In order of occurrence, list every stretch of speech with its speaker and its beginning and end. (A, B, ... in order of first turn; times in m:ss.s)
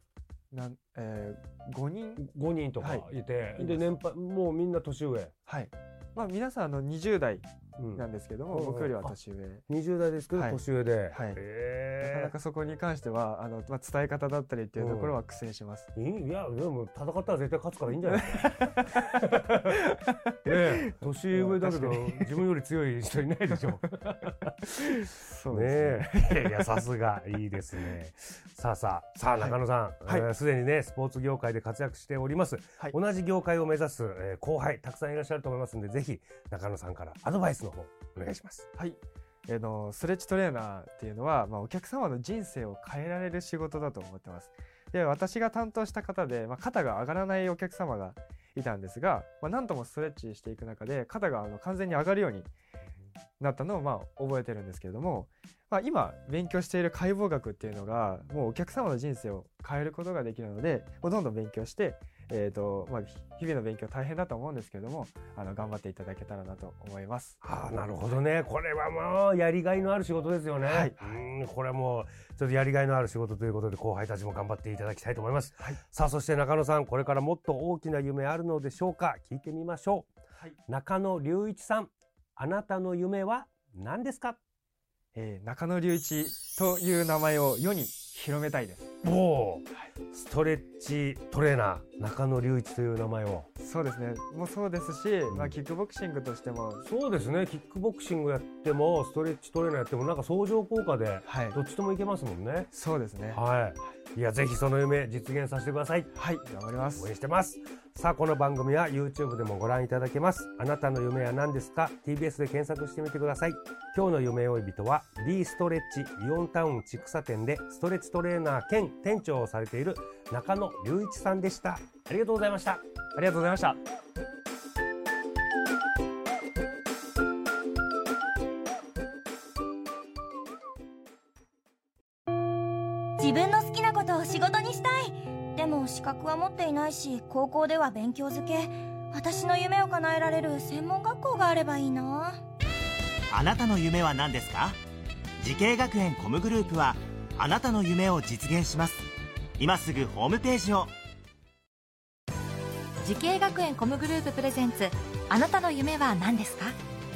0:00.5-0:02.3 A
0:02.2-0:05.3 B
0:02.8-0:03.9 A
0:05.5-0:09.6 A
0:07.8-0:09.2 B
0:09.7-0:12.3 B
0:10.3-0:11.4 A
0:12.0-0:15.9 A
0:14.8-0:15.2 B
0:16.0-0:19.8 B
0:18.3-0:19.1 A
0:19.7-0:22.4 A
0:20.4-0:38.7 B
0:24.8-0:26.7 A
0:29.4-0:30.3 A
0:38.8-0:52.5 A
0:53.4-1:07.4 A
1:07.4-1:20.1 B
1:10.6-1:11.3 A
1:20.7-1:24.4 B
1:25.1-1:28.9 A
1:29.0-1:33.5 B
1:33.6-1:36.9 A
1:35.3-1:35.6 B
1:36.8-1:42.7 B
1:41.2-1:41.6 A
1:42.7-1:43.4 A
1:43.3-1:46.1 B
1:46.1-1:47.1 A
1:47.0-2:02.8 B
2:03.2-2:03.8 A
2:13.2-2:22.4 C
2:23.3-2:24.8 D
2:25.4-2:29.1 D
2:29.6-2:30.9 D
2:33.0-2:36.7 E